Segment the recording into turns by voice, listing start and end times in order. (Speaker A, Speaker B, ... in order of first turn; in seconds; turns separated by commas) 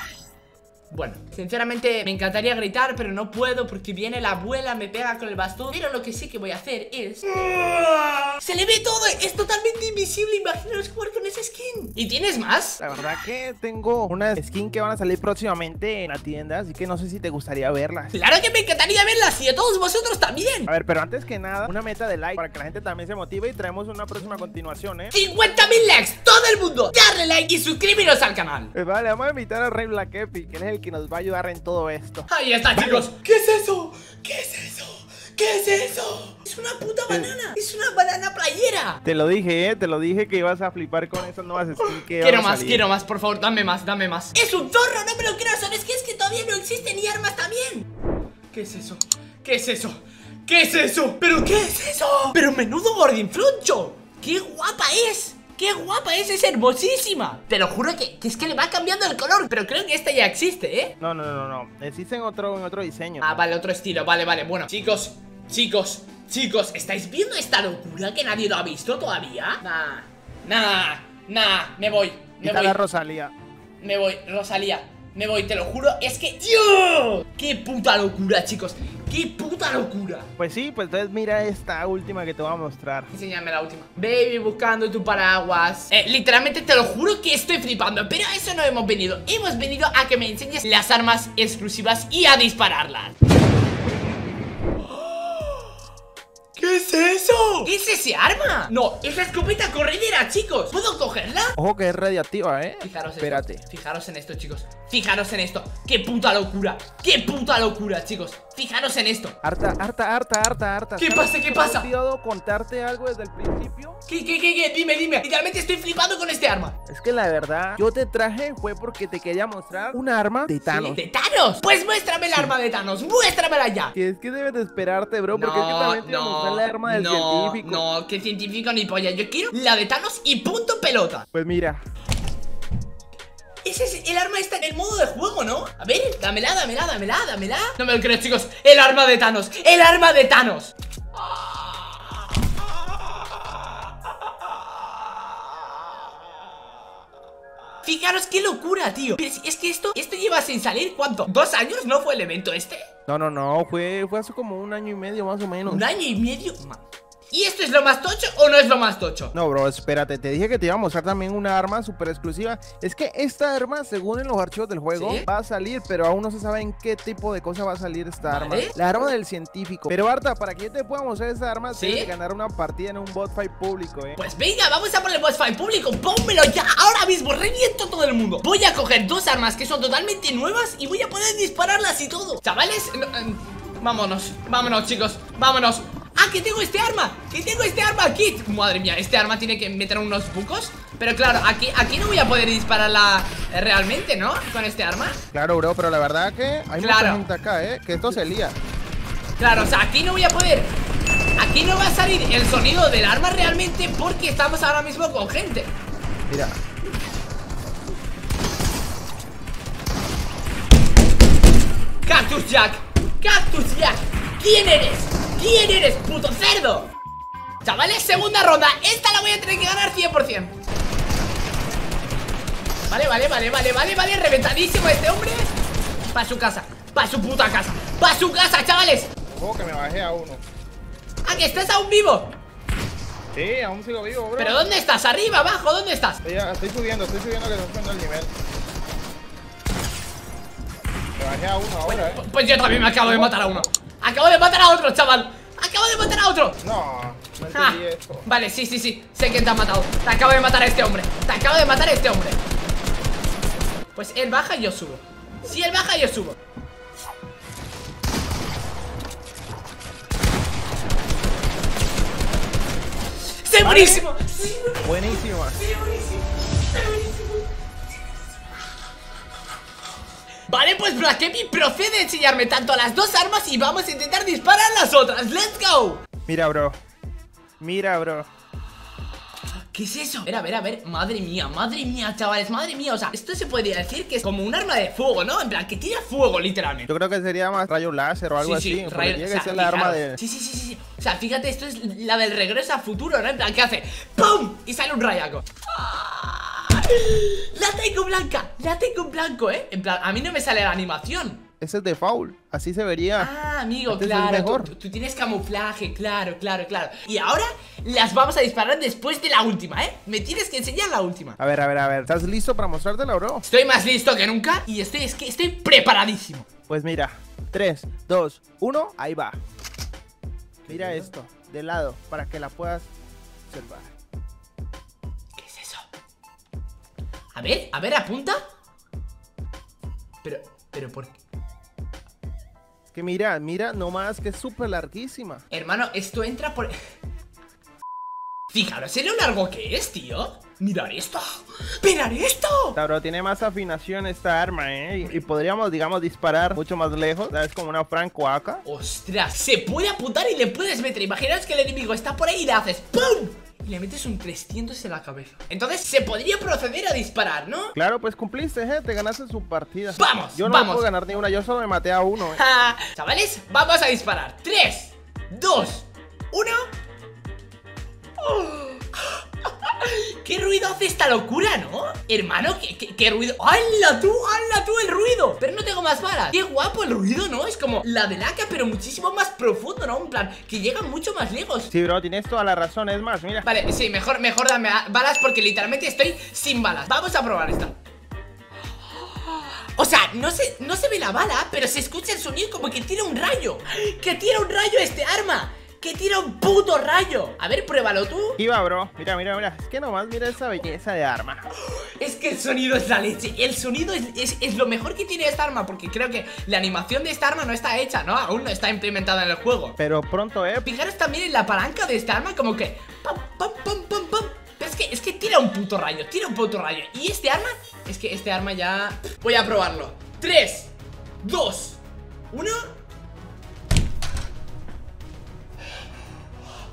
Speaker A: 0.9-12.8, Speaker B: 12.8-18.1, Speaker A: 18.1-20.7, Speaker B: 20.7-25.1, Speaker A: 25.1-28.7, Speaker B: 28.7-33.1, Speaker A: 32.3-39.0, Speaker B: 37.1-37.3, Speaker B: 39.0-42.9, Speaker A: 41.8-47.9, Speaker A: 48.5-60.9, Speaker B: 61.0-63.3, Speaker A: 63.2-72.8, Speaker B: 72.4-73.3, Speaker A: 73.8-80.3, Speaker B: 80.4-83.1, Speaker A: 83.1-93.1, Speaker A: 94.9-95.7, Speaker A: 96.6-101.5, Speaker B: 101.6-103.6, Speaker A: 102.8-109.4, Speaker B: 109.4-114.0, Speaker A: 111.0-111.9, Speaker A: 114.1-116.8, Speaker B: 116.9-121.0, Speaker A: 120.7-123.9, Speaker B: 124.0-127.8, Speaker A: 125.3-131.2, Speaker B: 131.3-131.8, Speaker A: 133.6-141.7, Speaker A: 147.8-152.9, Speaker B: 153.1-155.9, Speaker A: 155.7-159.3, Speaker B: 159.3-174.2, Speaker A: 164.9-165.3, Speaker A: 168.3-168.7, Speaker A: 171.8-172.1, Speaker A: 174.2-195.2, Speaker B: 195.3-198.6, Speaker A: 196.8-197.3, Speaker A: 199.4-200.7, Speaker A: 201.4-205.7, Speaker B: 206.3-206.6, Speaker A: 212.1-216.9, Speaker A: 217.7-220.5, Speaker A: 222.9-225.5, Speaker A: 226.1-229.1, Speaker B: 229.3-230.4, Speaker A: 231.2-232.3, Speaker B: 231.3-231.6, Speaker B: 233.3-234.7, Speaker A: 234.4-236.2, Speaker B: 236.2-238.3, Speaker B: 241.2-242.2, Speaker A: 241.9-246.6, Speaker B: 243.0-243.7, Speaker B: 246.6-248.3, Speaker A: 247.5-252.4, Speaker A: 253.9-256.4, Speaker A: 263.4-267.5, Speaker B: 263.6-264.1, Speaker B: 264.8-265.6, Speaker A: 270.5-276.0, Speaker B: 276.3-276.8, Speaker B: 277.6-278.3, Speaker A: 279.7-286.9, Speaker B: 286.9-290.2, Speaker A: 288.4-301.4, Speaker B: 301.6-303.3, Speaker A: 303.2-311.4, Speaker B: 303.9-304.7, Speaker B: 311.4-313.4, Speaker A: 313.4-316.5, Speaker B: 316.7-319.4, Speaker B: 320.7-322.9, Speaker B: 323.5-323.9, Speaker A: 325.4-325.8, Speaker A: 327.3-328.4, Speaker A: 330.2-331.2, Speaker B: 332.9-335.4, Speaker A: 335.5-336.8, Speaker A: 338.5-342.8, Speaker B: 342.8-348.6, Speaker A: 348.6-357.7, Speaker B: 357.8-362.4, Speaker A: 360.0-360.9, Speaker A: 362.2-366.7, Speaker A: 368.2-381.7, Speaker B: 381.7-383.5, Speaker A: 383.4-387.8, Speaker A: 389.2-398.4, Speaker B: 398.4-401.5, Speaker A: 401.6-409.8, Speaker B: 409.8-410.7, Speaker A: 410.6-420.7, Speaker A: 421.2-421.8, Speaker A: 422.3-422.7